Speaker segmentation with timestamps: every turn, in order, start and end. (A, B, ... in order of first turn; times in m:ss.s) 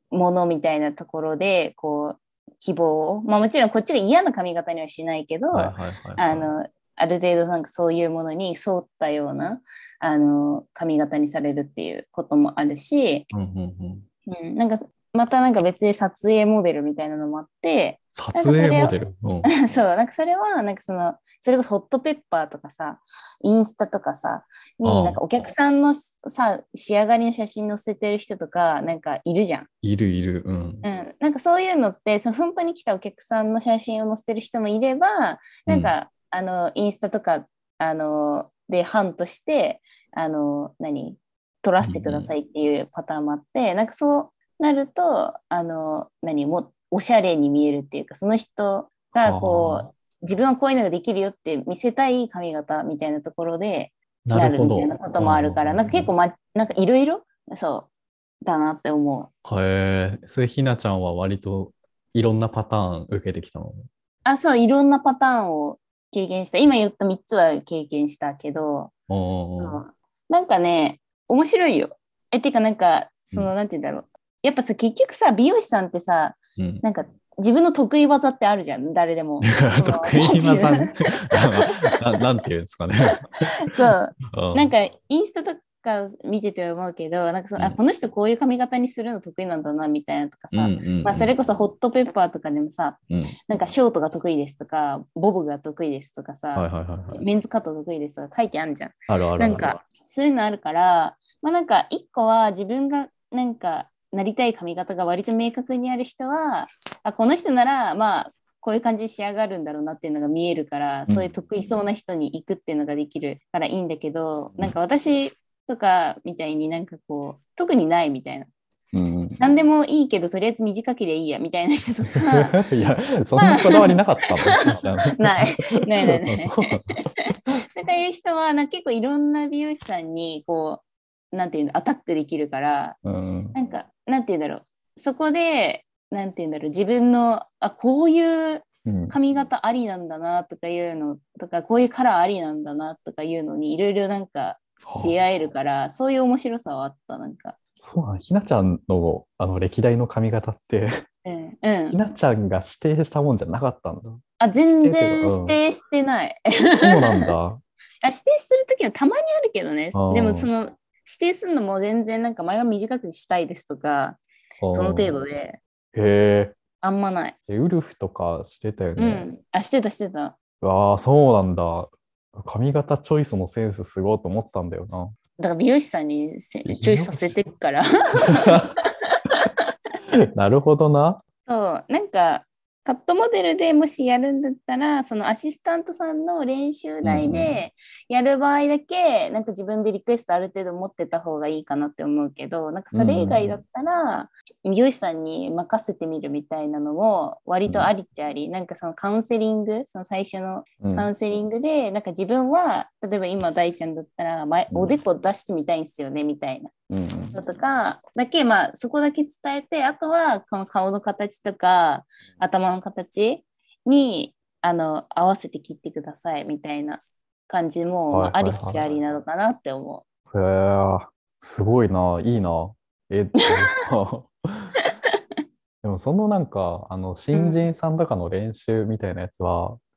0:00.1-0:13.3 A
0:05.5-0:06.5 B
0:13.3-0:14.0 B
0:14.3-0:18.9 A
0:18.1-0:19.5 B
0:19.5-0:29.7 A
0:24.8-0:25.2 B
0:29.8-0:30.8 B
0:30.8-0:57.9 A
0:35.7-0:35.9 B
0:41.8-0:42.3 B
0:49.2-0:49.9 B
0:54.2-0:56.1 B
0:58.4-0:59.3 A
0:59.4-1:03.8 B
1:04.2-1:08.9 A
1:09.1-1:09.8 B
1:09.5-1:20.9 A
1:16.6-1:16.8 B
1:19.4-1:24.7 B
1:23.6-1:58.5 A
1:30.5-1:31.3 B
1:33.1-1:33.4 B
1:36.5-1:37.2 B
1:39.1-1:39.8 B
1:58.9-1:59.4 B
1:59.4-2:02.7 A
2:02.1-2:07.0 B
2:03.4-2:04.0 A
2:05.2-2:13.0 A
2:13.0-2:13.5 B
2:13.5-2:27.6 A
2:18.8-2:19.2 B
2:24.8-2:25.2 B
2:27.8-2:31.0 B
2:31.2-2:32.0 A
2:31.9-2:35.6 B
2:34.4-2:37.3 A
2:36.8-2:37.6 B
2:38.0-2:45.6 A
2:39.9-2:40.5 B
2:44.6-2:45.1 B
2:45.9-2:46.6 B
2:46.8-2:47.4 A
2:47.5-2:49.3 B
2:49.0-2:50.3 A
2:50.6-2:55.2 B
2:55.4-2:59.5 A
2:56.6-2:57.4 B
2:58.5-2:58.7 B
3:00.1-3:01.2 B
3:01.5-3:26.7 A
3:07.0-3:07.6 B
3:12.9-3:13.6 B
3:20.8-3:21.1 B
3:24.7-3:25.0 B
3:26.9-3:27.4 B
3:27.3-3:40.0 A
3:38.1-3:38.8 B
3:40.3-3:44.7 B
3:43.4-3:43.8 A
3:45.8-3:49.8 B
3:47.3-3:47.7 A